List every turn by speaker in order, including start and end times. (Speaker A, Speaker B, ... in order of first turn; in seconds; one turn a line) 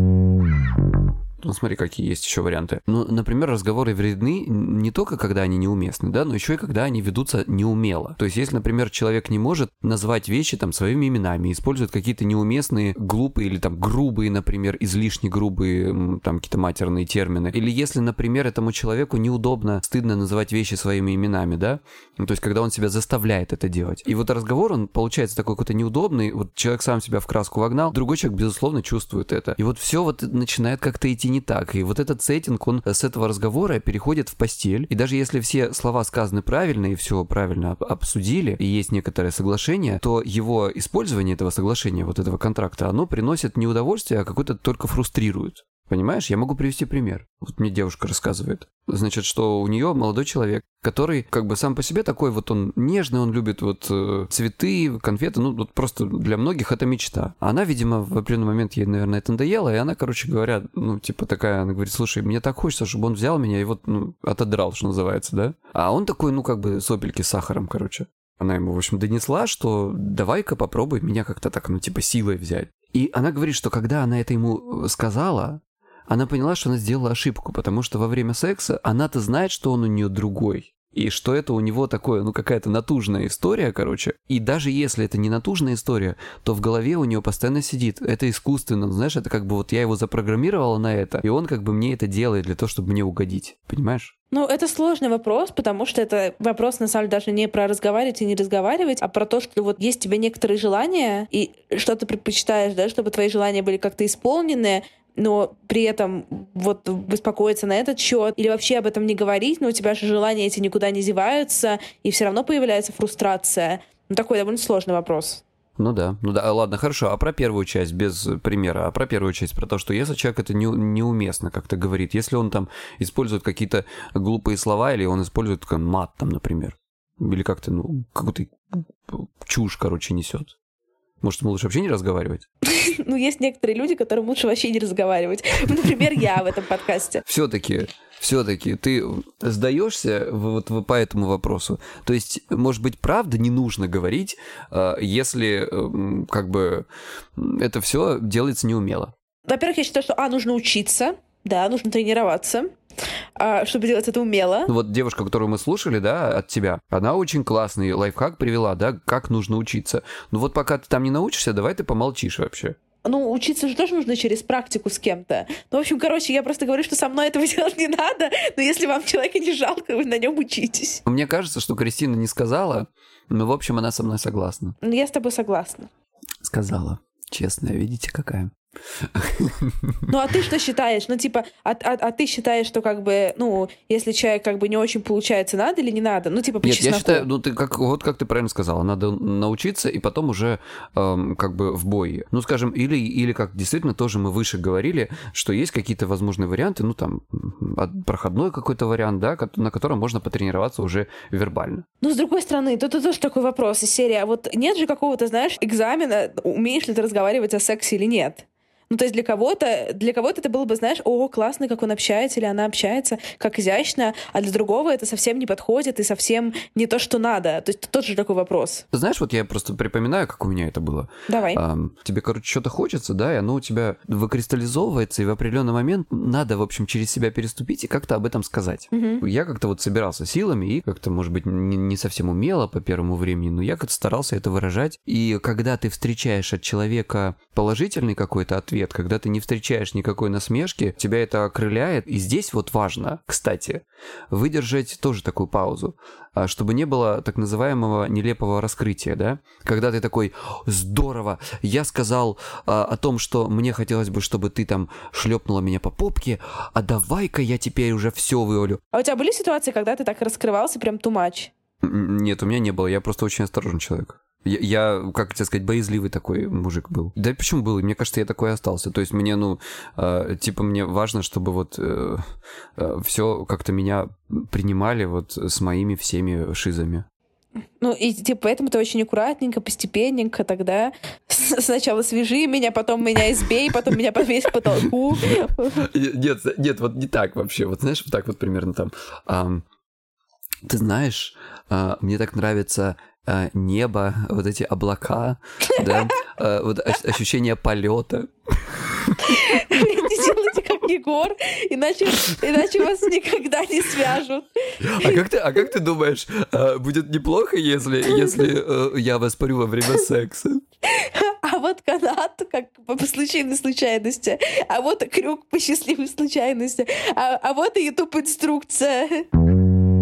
Speaker A: 1.4-94.1
Speaker B: 94.3-115.4
Speaker A: 115.8-130.5
Speaker A: 131.2-132.4
Speaker B: 132.7-137.2
Speaker A: 137.2-149.1
Speaker B: 149.5-152.7
Speaker B: 153.4-154.7
Speaker A: 154.7-162.8
Speaker B: 163.1-171.0
Speaker A: 171.1-174.8
Speaker B: 174.8-175.9
Speaker A: 176.4-180.0
Speaker B: 180.1-187.3
Speaker A: 186.6-201.8
Speaker B: 202.0-218.8
Speaker A: 218.9-258.8
Speaker B: 221.3-221.6
Speaker B: 228.9-229.2
Speaker B: 258.9-261.5
Speaker A: 261.8-277.1
Speaker B: 277.8-285.8
Speaker A: 285.8-289.6
Speaker A: 290.7-299.8
Speaker B: 299.3-304.5
Speaker A: 304.8-310.6
Speaker B: 310.9-319.2